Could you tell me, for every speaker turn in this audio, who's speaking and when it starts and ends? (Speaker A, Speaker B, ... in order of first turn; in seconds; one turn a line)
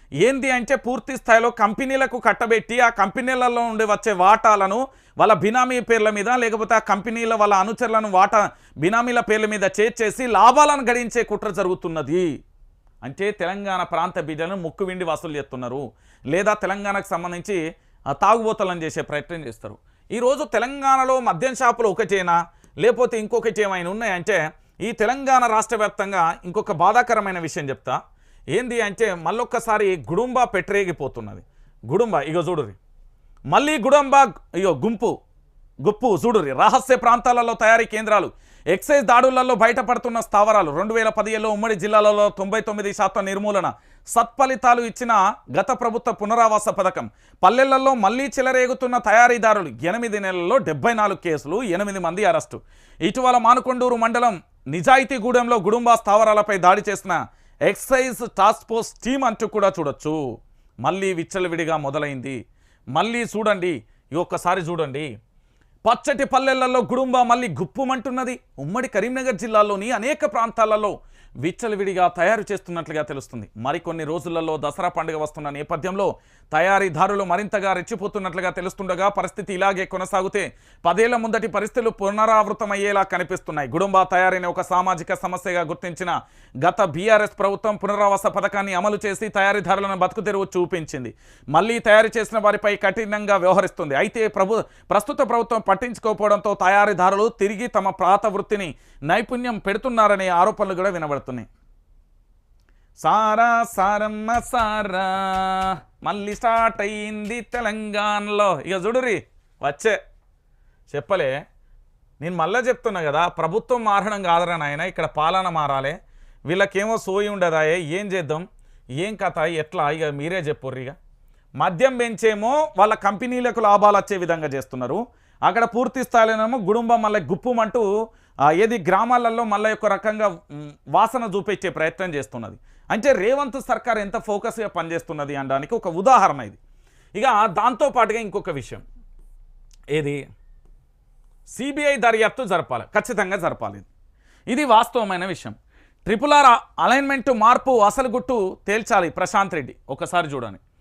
Speaker A: 0.2-12.3
Speaker A: 13.0-17.6
Speaker A: 18.1-28.0
Speaker A: 28.5-32.8
Speaker A: 33.5-35.1
Speaker A: 35.8-57.2
Speaker A: 57.7-60.2
Speaker A: 60.8-62.4
Speaker A: 62.9-65.1
Speaker A: 65.8-101.5
Speaker A: 103.0-110.0
Speaker A: 110.9-111.3
Speaker A: 112.2-116.0
Speaker A: 116.5-118.4
Speaker A: 119.0-120.9
Speaker A: 121.6-127.9
Speaker A: 128.5-136.6
Speaker A: 137.1-138.8
Speaker A: 139.9-140.2
Speaker A: 141.5-143.8
Speaker A: 144.5-150.6